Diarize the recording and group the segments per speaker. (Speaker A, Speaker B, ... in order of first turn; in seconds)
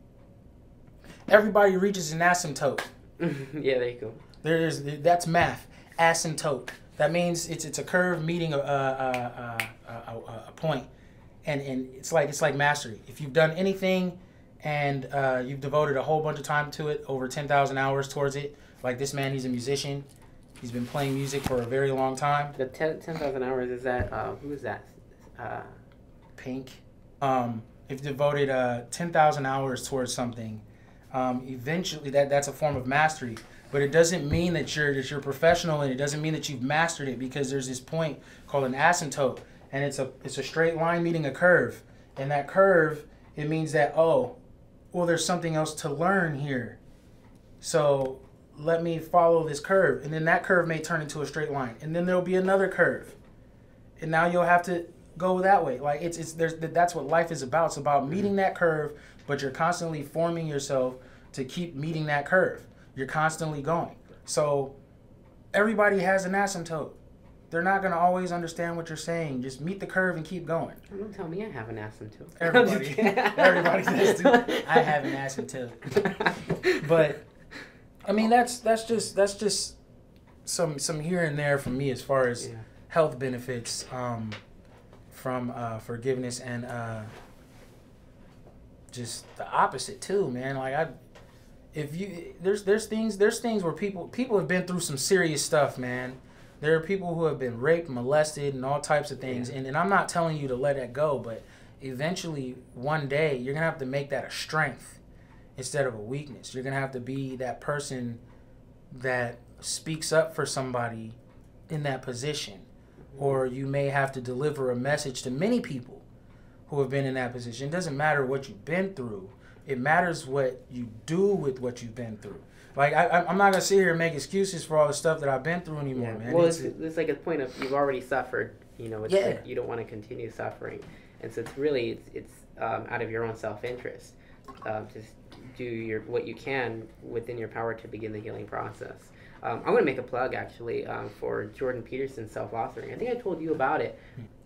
Speaker A: 1.3-2.9, 4.4-10.9, 11.4-20.1, 20.6-22.6, 26.4-44.4, 44.9-46.8, 47.6-53.2, 54.0-64.7, 65.5-67.0, 67.5-70.8, 72.4-76.1, 76.8-77.2, 78.1-79.8, 80.5-84.4, 85.1-87.1, 88.9-90.9, 91.7-105.0, 105.6-108.2, 108.9-111.2, 111.7-116.0, 116.7-126.7, 129.1-129.4
Speaker B: 3.2-4.3, 22.6-25.7, 70.9-75.4, 75.9-77.1, 82.4-82.7, 99.2-99.5, 113.1-113.4, 125.9-144.0